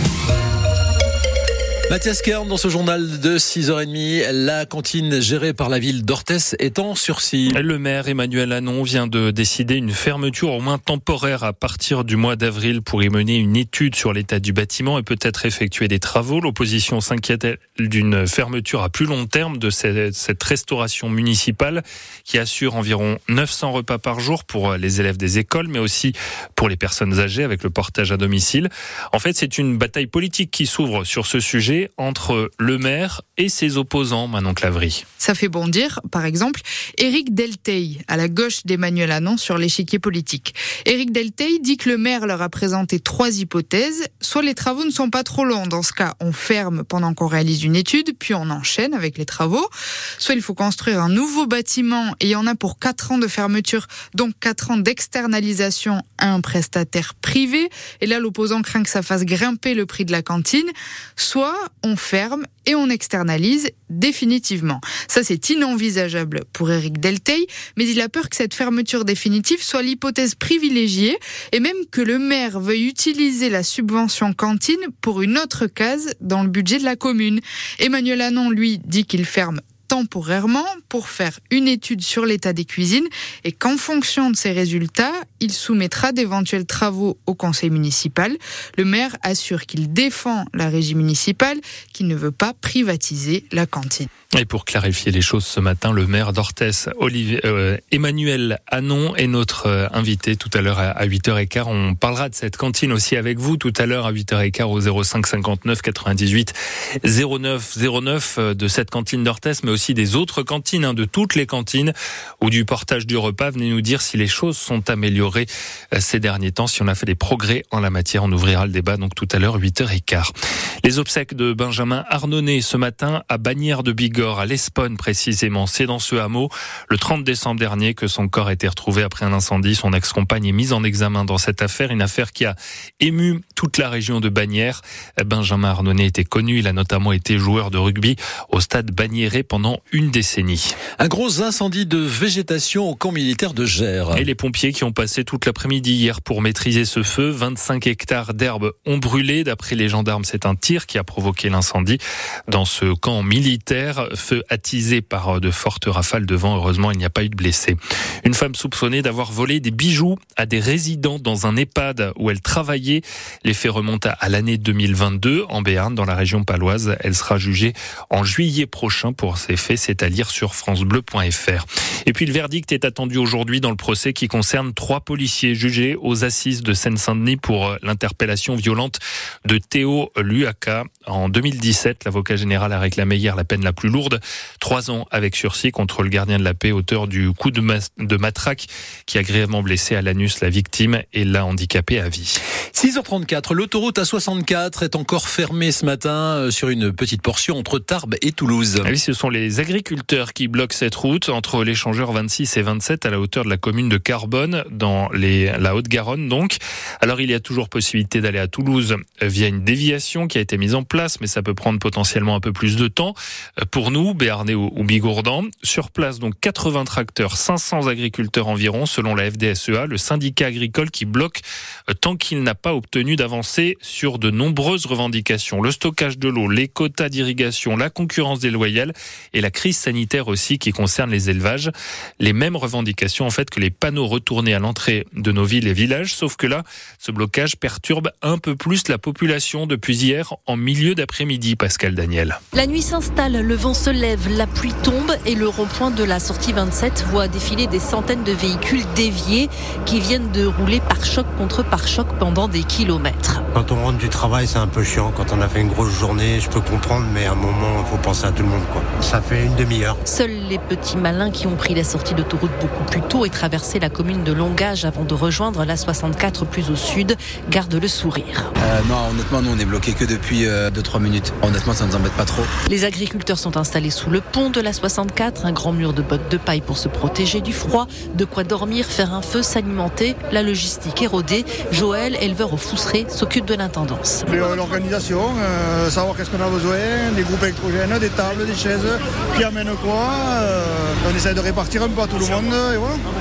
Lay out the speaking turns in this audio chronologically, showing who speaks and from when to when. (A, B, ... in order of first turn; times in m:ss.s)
0:01.9-0:07.6 A
0:07.5-0:35.0 B
0:35.2-1:34.1 C
1:34.4-2:00.3 B
2:00.8-2:20.8 B
2:21.0-2:24.3 A
2:24.1-3:12.4 B
3:12.7-3:18.9 A
3:18.8-3:41.4 B
3:41.9-4:02.4 B
4:02.5-4:13.4 D
4:13.5-4:20.0 E
4:20.0-4:28.5 D
4:28.6-4:32.5 F
4:32.6-4:44.3 D
4:44.3-4:53.0 G